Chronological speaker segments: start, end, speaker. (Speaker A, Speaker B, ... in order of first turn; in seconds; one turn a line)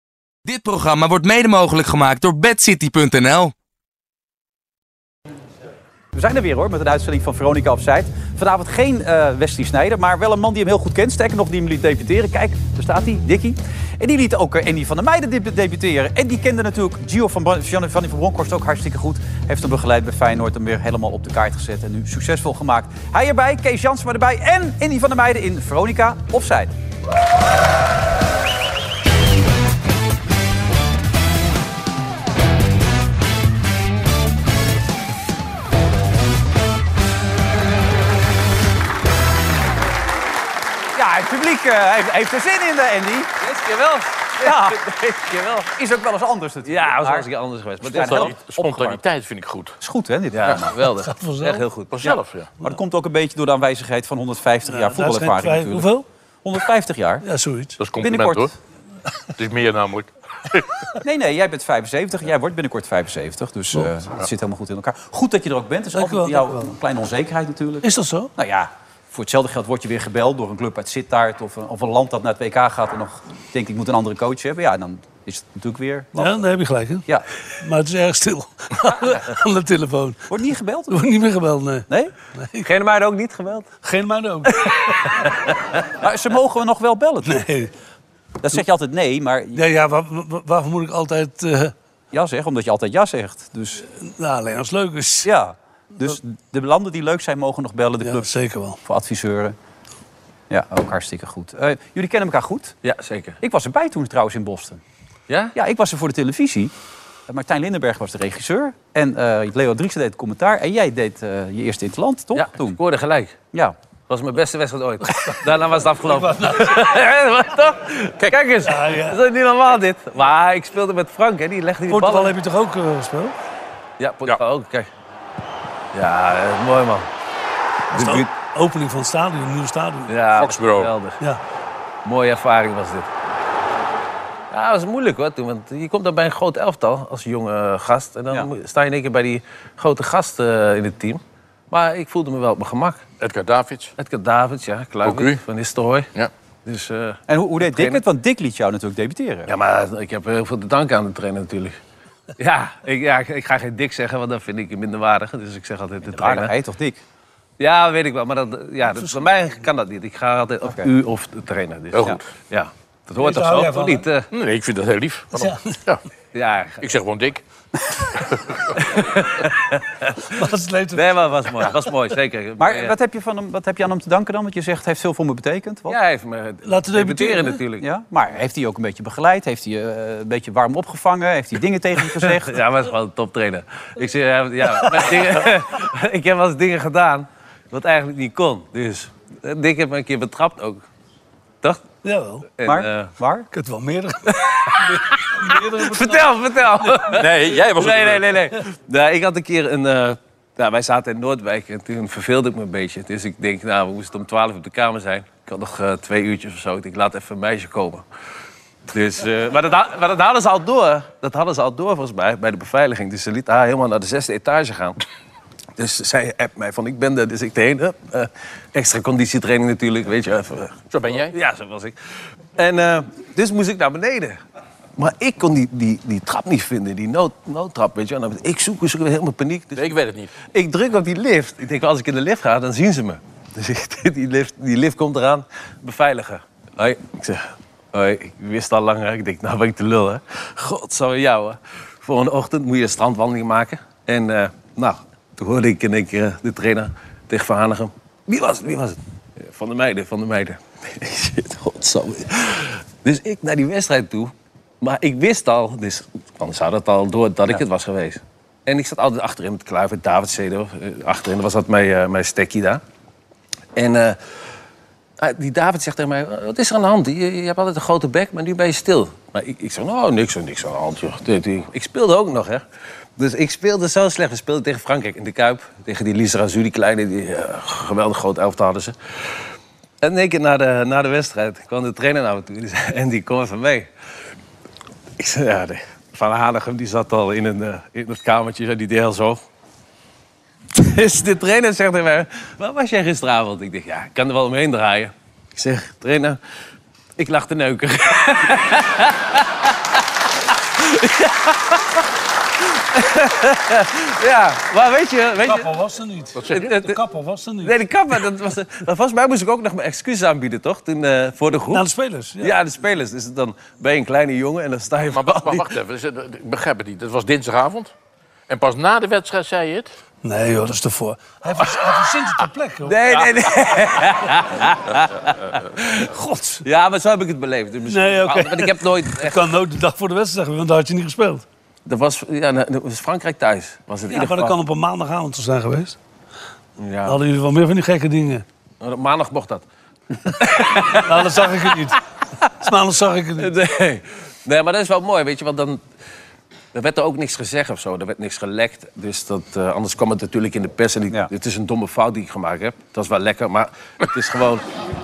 Speaker A: 0.4-3.5
Speaker B: 6.1-26.7
Speaker B: 40.9-43.3
Speaker C: 43.4-45.7
Speaker B: 44.4-44.9
Speaker B: 45.6-47.3
Speaker C: 46.6-48.4
Speaker B: 47.9-49.0
Speaker D: 47.9-49.8
Speaker B: 49.8-50.8
Speaker C: 50.3-52.1
Speaker E: 51.0-51.6
Speaker D: 51.9-52.5
Speaker B: 52.0-55.9
Speaker E: 54.7-56.0
Speaker B: 56.4-57.2
Speaker E: 57.2-57.8
Speaker D: 57.8-58.5
Speaker B: 58.0-58.5
Speaker D: 59.4-60.7
Speaker B: 61.0-76.4
Speaker E: 65.9-66.7
Speaker E: 67.8-68.3
Speaker E: 76.1-77.1
Speaker E: 77.6-80.2
Speaker B: 80.3-81.0
Speaker E: 80.9-82.7
Speaker C: 82.6-83.7
Speaker E: 83.8-85.2
Speaker C: 84.6-85.5
Speaker B: 86.0-87.4
Speaker E: 87.2-87.7
Speaker B: 88.4-89.6
Speaker E: 89.5-91.7
Speaker B: 92.1-93.8
Speaker E: 94.0-95.3
Speaker B: 95.2-99.5
Speaker E: 98.0-98.8
Speaker B: 100.5-102.7
Speaker C: 102.8-103.4
Speaker B: 103.4-104.8
Speaker C: 105.3-105.5
Speaker B: 105.5-106.7
Speaker B: 107.3-112.8
Speaker C: 112.3-113.3
Speaker C: 114.1-122.3
Speaker E: 116.0-116.8
Speaker E: 118.6-119.2
Speaker E: 121.9-123.3
Speaker C: 124.0-124.9
Speaker C: 125.9-127.1
Speaker E: 127.9-130.1
Speaker C: 127.9-128.3
Speaker C: 130.1-131.2
Speaker D: 130.3-130.9
Speaker C: 132.0-133.1
Speaker C: 134.5-141.2
Speaker C: 141.7-143.0
Speaker D: 143.2-143.9
Speaker C: 144.0-146.1
Speaker D: 145.0-145.4
Speaker C: 146.7-148.0
Speaker B: 147.3-149.5
Speaker C: 149.5-151.8
Speaker C: 152.4-156.5
Speaker B: 156.1-157.0
Speaker C: 157.6-164.3
Speaker D: 161.9-162.2
Speaker E: 163.2-164.0
Speaker D: 164.3-166.0
Speaker E: 165.3-165.8
Speaker C: 166.3-166.8
Speaker D: 166.8-167.4
Speaker D: 168.2-169.0
Speaker C: 168.8-170.2
Speaker E: 170.3-171.7
Speaker C: 170.9-172.9
Speaker B: 172.6-176.0
Speaker C: 175.9-177.8
Speaker E: 176.7-177.6
Speaker B: 177.8-182.6
Speaker C: 182.2-190.8
Speaker E: 184.8-185.1
Speaker E: 192.0-192.5
Speaker C: 192.6-193.1
Speaker B: 192.6-193.5
Speaker E: 193.5-196.3
Speaker C: 194.4-208.0
Speaker D: 197.1-198.3
Speaker C: 208.9-215.0
Speaker C: 215.8-220.8
Speaker D: 220.9-221.3
Speaker C: 221.3-221.9
Speaker C: 222.6-224.4
Speaker C: 225.0-262.8
Speaker D: 229.7-230.3
Speaker C: 263.7-264.2
Speaker C: 265.2-272.6
Speaker C: 273.2-278.9
Speaker C: 280.0-283.9
Speaker C: 285.2-289.4
Speaker C: 290.7-296.4
Speaker C: 297.2-302.1
Speaker C: 302.6-305.7
Speaker E: 305.4-307.8
Speaker D: 306.3-306.7
Speaker C: 306.5-307.0
Speaker C: 307.6-311.8
Speaker E: 311.7-312.5
Speaker C: 312.4-315.7
Speaker D: 315.1-317.9
Speaker D: 318.5-319.9
Speaker E: 320.2-323.0
Speaker C: 322.8-326.1
Speaker E: 326.1-326.6
Speaker C: 326.6-329.4
Speaker E: 327.9-331.4
Speaker C: 331.9-334.6
Speaker E: 334.1-336.0
Speaker C: 336.8-337.2
Speaker E: 337.1-338.4
Speaker C: 338.8-339.6
Speaker C: 340.2-341.6
Speaker E: 341.0-342.0
Speaker E: 342.6-343.5
Speaker C: 343.4-345.8
Speaker C: 346.7-354.6